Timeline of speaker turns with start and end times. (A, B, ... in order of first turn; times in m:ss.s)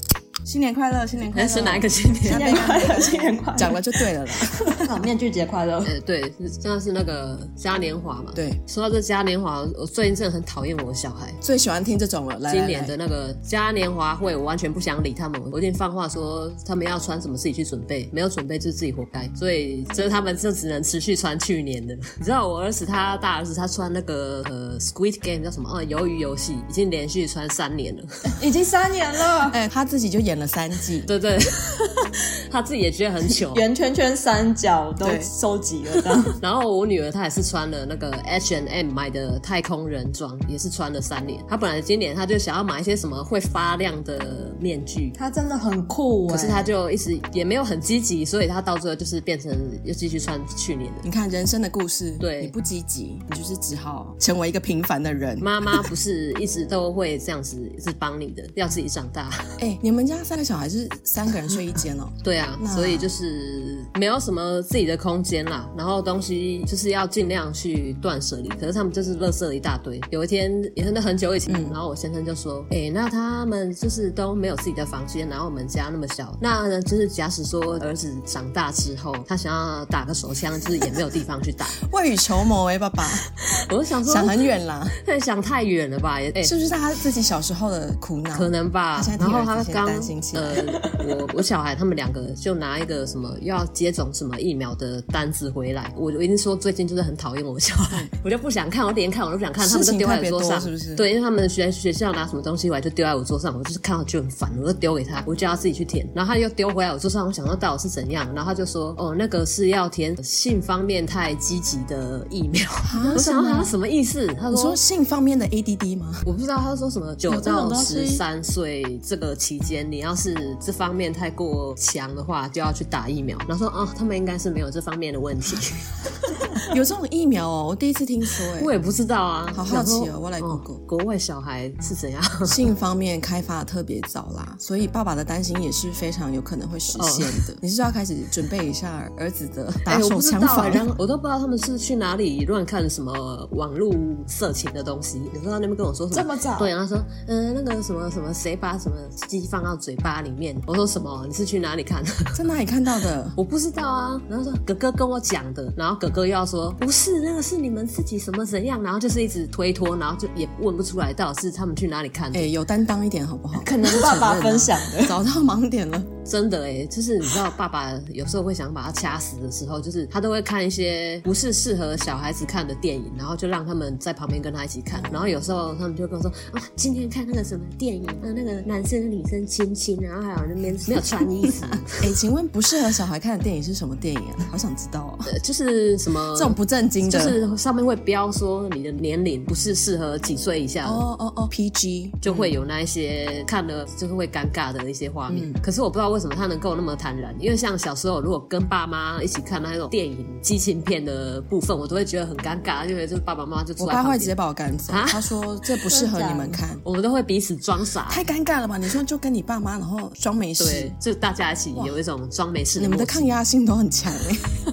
0:00.4-0:04.8 A
0:01.3-0:02.7 B
0:02.2-0:06.0 C
0:05.8-0:11.4 B
0:11.4-0:12.9 A
0:12.5-0:28.2 B
0:28.3-0:29.6 C
0:29.5-0:31.1 A
0:31.1-0:33.6 B
0:33.4-0:36.4 C
0:35.0-0:35.3 A
0:36.4-0:45.2 B
0:45.2-0:46.7 C
0:46.3-0:51.0 B
0:51.0-0:55.5 A
0:52.2-0:52.5 B
0:55.4-0:59.6 B
0:59.6-1:03.1 A
1:02.2-1:21.8 B
1:11.5-1:11.8 A
1:21.9-1:23.3 A
1:23.4-1:24.5 B
1:24.1-1:25.0 A
1:25.0-1:26.6 B
1:26.4-1:30.6 A
1:28.3-1:54.8 B
1:30.6-1:31.2 C
1:39.6-1:41.0 A
1:52.8-1:53.7 A
1:54.5-1:56.3 A
1:56.2-2:06.6 B
1:57.3-1:58.2 A
1:57.3-1:58.0 C
2:06.6-2:08.7 A
2:08.6-2:12.6 B
2:09.5-2:10.8 A
2:12.4-2:20.8 A
2:16.9-2:17.4 B
2:19.8-2:32.4 B
2:26.1-2:26.7 C
2:32.3-2:33.4 A
2:33.4-2:42.5 B
2:42.3-2:46.1 A
2:43.5-2:45.2 C
2:46.2-3:02.0 B
2:54.9-2:55.4 A
3:00.9-3:05.3 A
3:05.3-3:11.0 B
3:06.3-3:07.4 A
3:10.8-3:12.6 A
3:12.2-3:24.3 B
3:15.3-3:15.6 A
3:23.8-3:26.8 A
3:24.9-3:25.4 B
3:25.9-3:26.6 C
3:26.8-3:28.2 B
3:28.1-3:30.9 A
3:30.6-3:33.4 B
3:32.8-3:34.4 A